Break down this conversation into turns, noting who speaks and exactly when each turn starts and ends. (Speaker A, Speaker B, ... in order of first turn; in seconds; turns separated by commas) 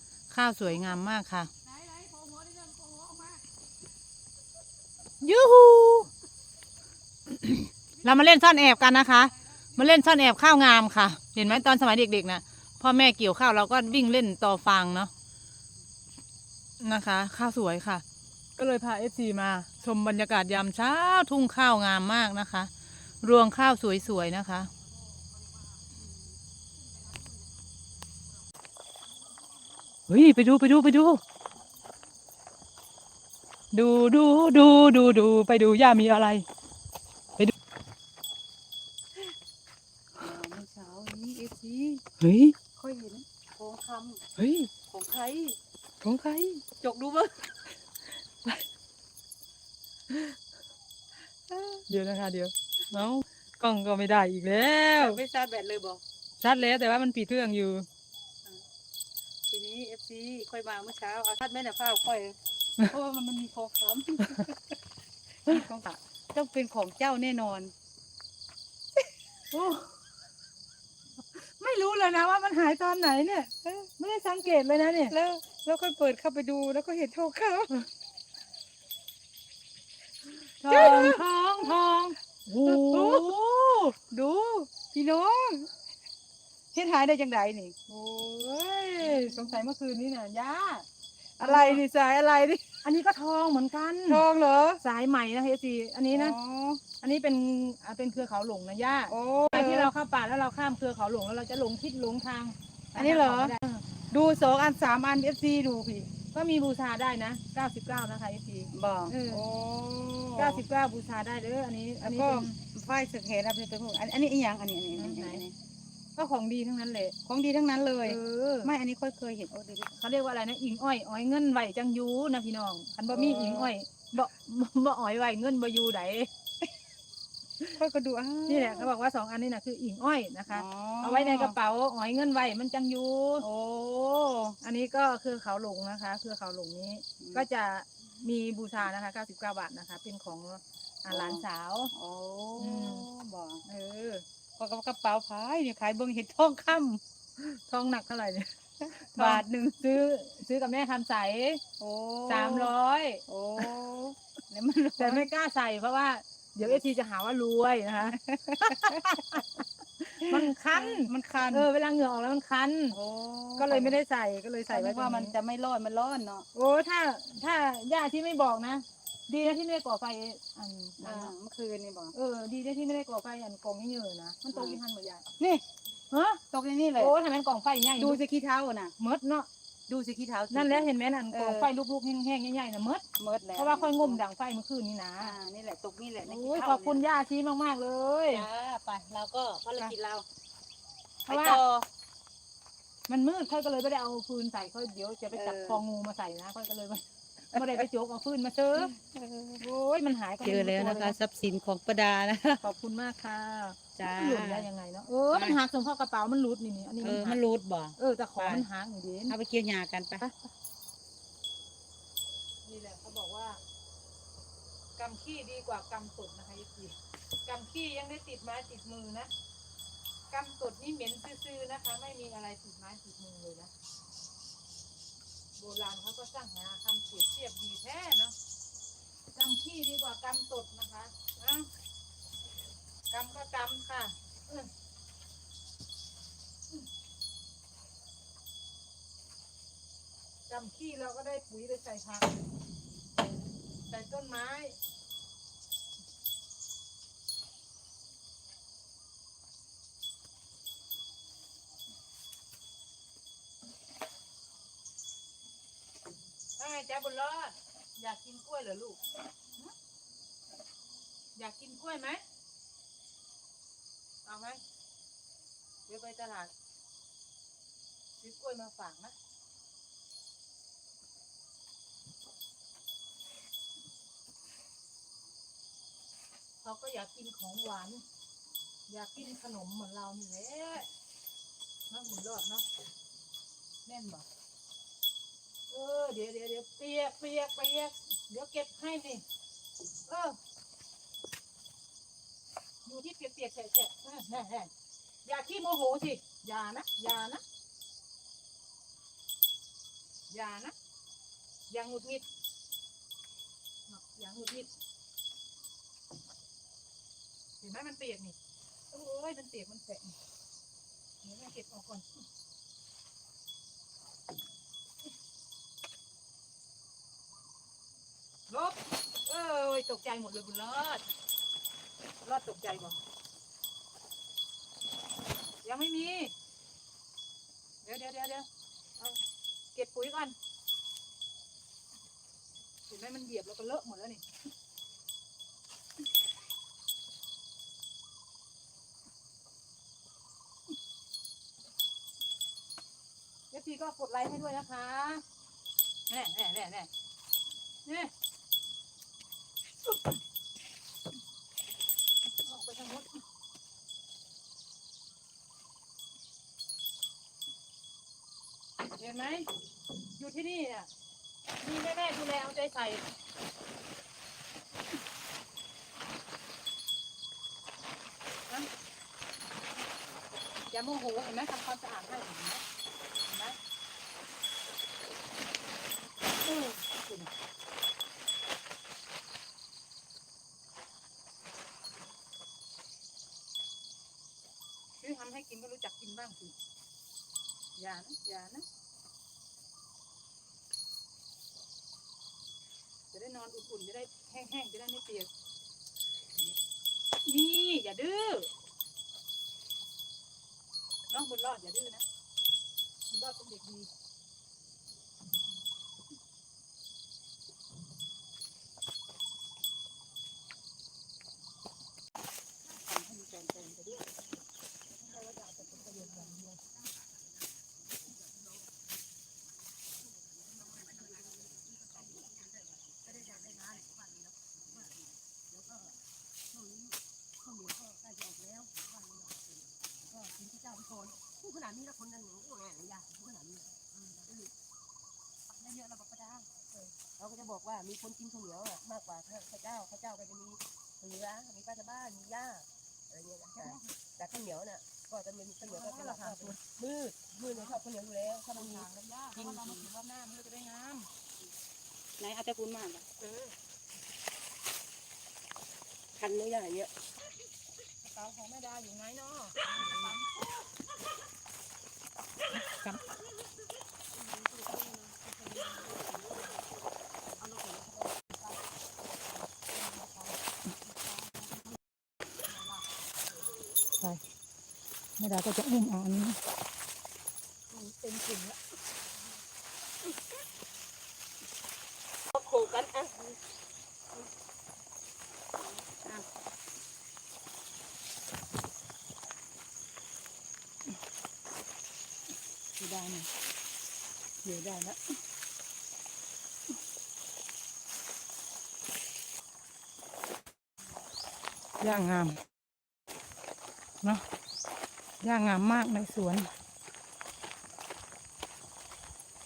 Speaker A: 0.3-1.5, Speaker B: 1.8-3.4, Speaker A: 5.2-6.1, Speaker A: 7.3-15.1, Speaker A: 16.8-18.0, Speaker A: 18.6-22.7, Speaker A: 23.2-24.7, Speaker A: 30.1-31.2, Speaker A: 33.7-36.5, Speaker B: 40.1-42.0, Speaker A: 42.2-42.5, Speaker B: 42.8-44.2, Speaker A: 44.4-44.7, Speaker B: 44.9-45.6, Speaker A: 46.0-46.6, Speaker B: 46.8-47.5, Speaker B: 51.5-51.8, Speaker A: 51.9-55.2, Speaker B: 55.0-56.0, Speaker A: 56.4-57.9, Speaker B: 59.5-64.5, Speaker B: 65.5-67.7, Speaker A: 69.5-70.0, Speaker A: 71.3-75.2, Speaker B: 75.1-77.8, Speaker A: 80.6-83.9, Speaker B: 80.7-81.8, Speaker B: 82.7-83.4, Speaker B: 83.9-85.7, Speaker B: 86.7-88.5, Speaker A: 88.3-90.9, Speaker B: 89.0-89.7, Speaker B: 91.4-92.6, Speaker A: 91.4-91.8, Speaker A: 92.8-94.2, Speaker B: 94.1-94.8, Speaker A: 94.8-96.4, Speaker B: 96.1-96.8, Speaker A: 97.0-103.8, Speaker B: 99.1-99.9, Speaker B: 103.0-103.5, Speaker B: 104.1-106.1, Speaker A: 106.3-109.5, Speaker B: 108.7-110.6, Speaker A: 110.4-112.6, Speaker B: 112.0-115.5, Speaker A: 114.9-115.4, Speaker A: 116.2-117.2, Speaker B: 117.2-120.0, Speaker A: 118.0-118.7, Speaker A: 120.0-126.3, Speaker B: 123.1-123.7, Speaker B: 127.8-128.9, Speaker A: 128.5-133.5, Speaker B: 130.5-131.6, Speaker B: 133.4-134.6, Speaker A: 134.6-141.9, Speaker B: 137.2-137.5, Speaker B: 141.1-141.4, Speaker B: 141.9-143.6, Speaker A: 142.6-143.1, Speaker A: 143.7-144.2, Speaker B: 144.6-147.0, Speaker A: 147.4-148.5, Speaker B: 148.8-150.0, Speaker A: 149.2-151.6, Speaker B: 151.8-152.7, Speaker A: 152.3-153.7, Speaker B: 153.3-155.3, Speaker A: 155.0-163.0, Speaker B: 158.1-159.4, Speaker B: 160.2-161.7, Speaker B: 162.9-164.0, Speaker A: 163.6-165.3, Speaker B: 164.7-166.5, Speaker A: 166.5-171.3, Speaker B: 171.0-172.1, Speaker A: 172.1-175.2, Speaker B: 174.5-174.8, Speaker A: 176.1-176.4, Speaker B: 176.5-177.1, Speaker A: 177.0-178.2, Speaker B: 178.0-178.9, Speaker A: 179.0-179.5, Speaker B: 179.9-181.7, Speaker A: 180.5-183.0, Speaker B: 183.2-184.2, Speaker A: 183.6-185.3, Speaker B: 185.2-187.0, Speaker A: 186.2-188.5, Speaker B: 188.3-190.3, Speaker A: 191.3-191.6, Speaker B: 191.3-191.9, Speaker A: 193.1-198.9, Speaker B: 195.3-195.8, Speaker B: 197.5-197.8, Speaker B: 198.8-199.6, Speaker A: 199.6-201.2, Speaker B: 200.4-202.6, Speaker A: 202.6-207.4, Speaker B: 204.0-204.7, Speaker B: 205.3-205.6, Speaker B: 207.0-208.7, Speaker A: 208.0-209.4, Speaker B: 209.3-210.3, Speaker A: 212.7-213.6, Speaker A: 215.0-219.3, Speaker A: 220.3-223.7, Speaker A: 225.6-228.4, Speaker A: 229.3-231.7, Speaker A: 233.1-234.7, Speaker A: 240.5-242.4, Speaker A: 243.9-244.8, Speaker A: 256.6-259.0, Speaker A: 261.4-262.2, Speaker A: 264.3-264.6, Speaker A: 265.9-266.5, Speaker A: 268.2-269.1, Speaker A: 276.6-278.0, Speaker A: 278.9-280.9, Speaker A: 281.9-282.6, Speaker A: 283.9-284.2, Speaker A: 285.7-289.2, Speaker A: 290.1-290.4, Speaker A: 292.9-294.7, Speaker A: 295.2-297.4, Speaker A: 300.3-300.7, Speaker A: 301.7-302.3, Speaker A: 303.9-304.7, Speaker A: 307.6-308.4, Speaker A: 308.9-310.1, Speaker A: 311.2-312.2, Speaker A: 318.5-321.0, Speaker A: 322.2-323.0, Speaker A: 325.6-326.3, Speaker A: 327.8-328.5, Speaker A: 329.7-330.4, Speaker A: 332.9-334.2, Speaker A: 343.5-345.2, Speaker A: 346.1-346.9, Speaker A: 347.9-348.1, Speaker A: 352.4-353.2, Speaker A: 358.8-360.9, Speaker A: 361.6-363.1, Speaker A: 370.7-372.6, Speaker A: 373.3-373.6, Speaker A: 376.4-377.3, Speaker A: 385.0-386.6, Speaker A: 387.8-388.7, Speaker A: 393.1-395.3, Speaker A: 397.2-398.5, Speaker A: 401.1-402.0, Speaker A: 403.1-403.9, Speaker B: 412.9-414.1, Speaker A: 415.0-416.6, Speaker C: 420.6-426.0, Speaker C: 426.5-434.5, Speaker A: 435.6-436.7, Speaker C: 437.2-448.8, Speaker A: 443.5-444.0, Speaker A: 445.6-446.6, Speaker A: 447.4-451.1, Speaker B: 449.4-449.9, Speaker B: 452.2-453.1, Speaker A: 453.2-453.5, Speaker C: 456.2-456.9, Speaker A: 458.0-460.1, Speaker A: 462.6-463.0, Speaker C: 464.3-465.8, Speaker A: 475.2-476.4, Speaker A: 477.7-478.6, Speaker A: 482.5-483.0, Speaker B: 485.8-486.2, Speaker A: 492.8-493.3, Speaker A: 494.4-495.0, Speaker A: 501.8-502.4, Speaker A: 505.2-506.5